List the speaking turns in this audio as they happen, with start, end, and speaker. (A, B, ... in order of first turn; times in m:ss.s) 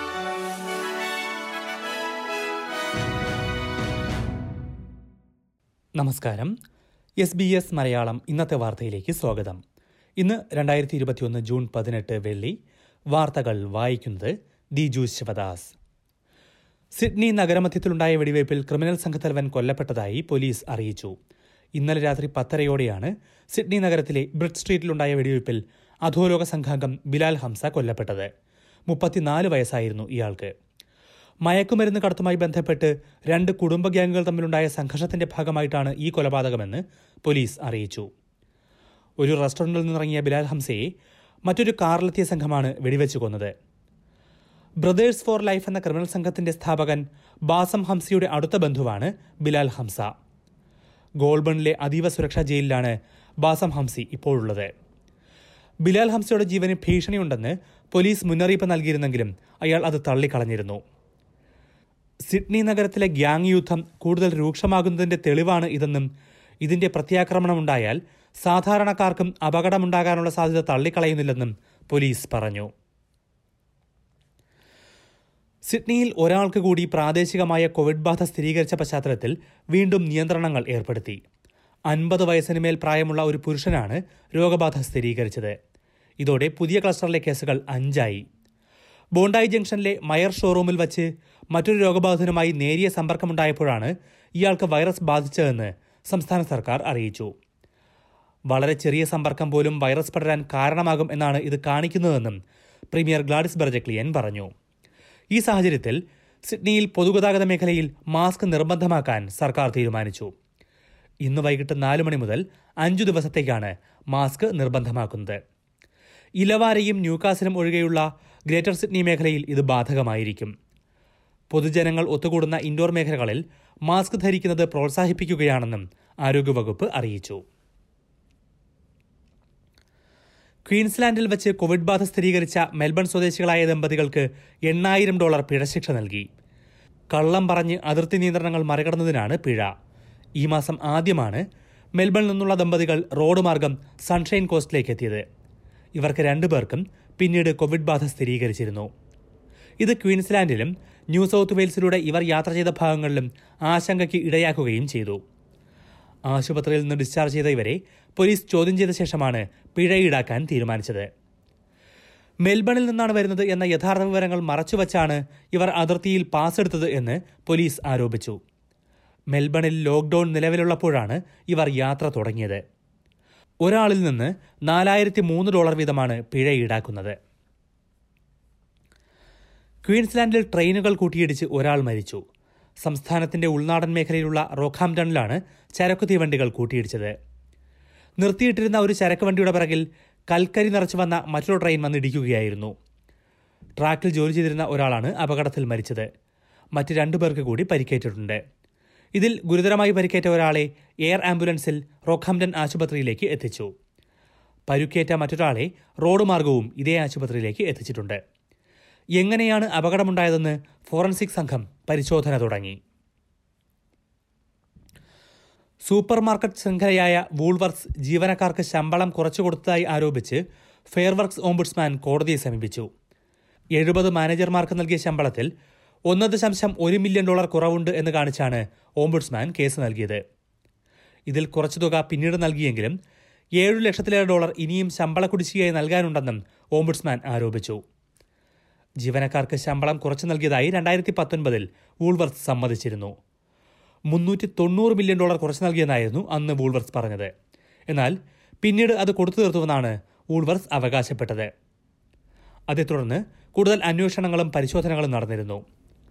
0:06.0-0:06.5 A
0:07.2-0:09.6 A
0:10.2-0:12.6 A
0:13.1-0:15.7 A
0:17.0-0:21.1 A
0:21.8-0:28.3 A
0:28.9-0:30.5 A
0:31.4-0:38.1 A
0:39.2-0:40.9 A
0:41.5-0:43.5 A
0:44.8-0:50.1 A
0:51.2-0:54.7 A
0:55.8-1:00.8 A
1:02.3-1:06.1 A
1:06.6-1:12.7 A
1:15.7-1:21.2 A
1:21.9-1:25.6 A
1:26.2-1:28.2 A
1:29.1-1:37.3 A
1:38.5-1:42.4 A
1:42.9-1:44.5 A
1:45.3-1:50.3 A
1:51.2-1:55.4 A
1:56.4-2:00.5 A
2:01.5-2:07.4 A
2:10.7-2:16.3 A
2:17.1-2:19.7 A
2:20.4-2:21.4 A
2:22.0-2:25.2 A
2:26.0-2:28.9 A
2:29.8-2:35.2 A
2:36.3-2:41.1 A
2:42.4-2:48.4 A
2:49.3-2:52.6 A
2:53.6-2:57.2 A
2:59.8-3:02.2 A
3:02.8-3:07.1 A
3:08.2-3:12.7 A
3:13.8-3:16.1 A
3:16.8-3:18.4 A
3:19.2-3:23.7 A
3:24.7-3:28.2 A
3:29.2-3:32.8 A
3:35.8-3:42.9 A
3:43.8-3:45.5 A
3:46.1-3:50.2 A
3:51.3-3:53.0 A
3:53.6-3:57.8 A
3:59.0-4:03.1 A
4:04.1-4:07.3 A
4:07.9-4:11.5 A
4:12.7-4:15.6 A